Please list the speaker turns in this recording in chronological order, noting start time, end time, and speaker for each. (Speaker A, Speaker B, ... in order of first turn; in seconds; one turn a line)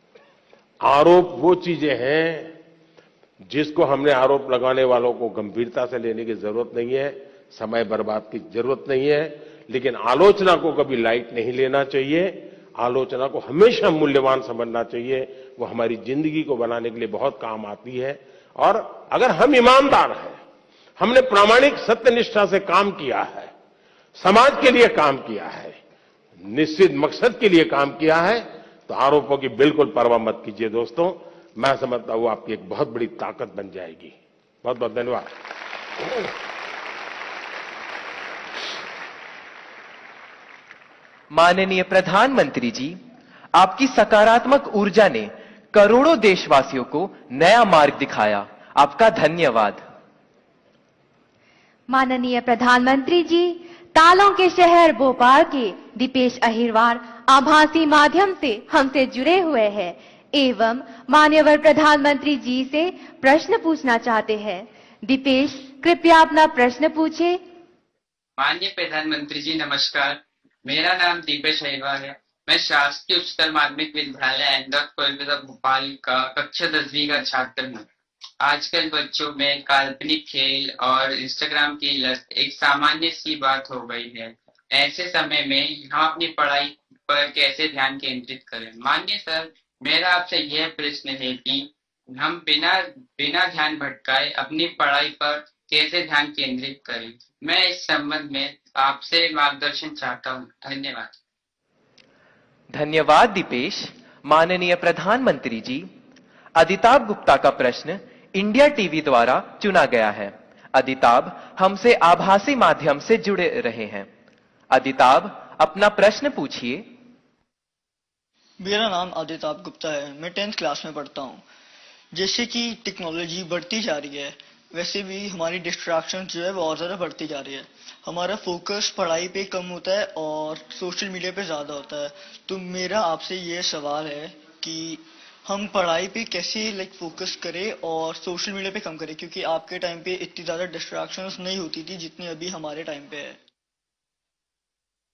Speaker A: 0.8-2.5
Speaker A: 3.5-20.4
Speaker A: 21.0-23.5
Speaker A: 24.2-25.8
Speaker A: 26.4-35.3
Speaker B: 41.3-43.0
Speaker B: 43.5-49.8
Speaker C: 51.9-67.4
Speaker D: 68.4-77.9
Speaker D: 78.4-101.2
Speaker B: 102.7-105.9
Speaker B: 106.6-114.1
Speaker B: 114.7-116.9
Speaker E: 118.6-121.4
Speaker E: 122.1-143.4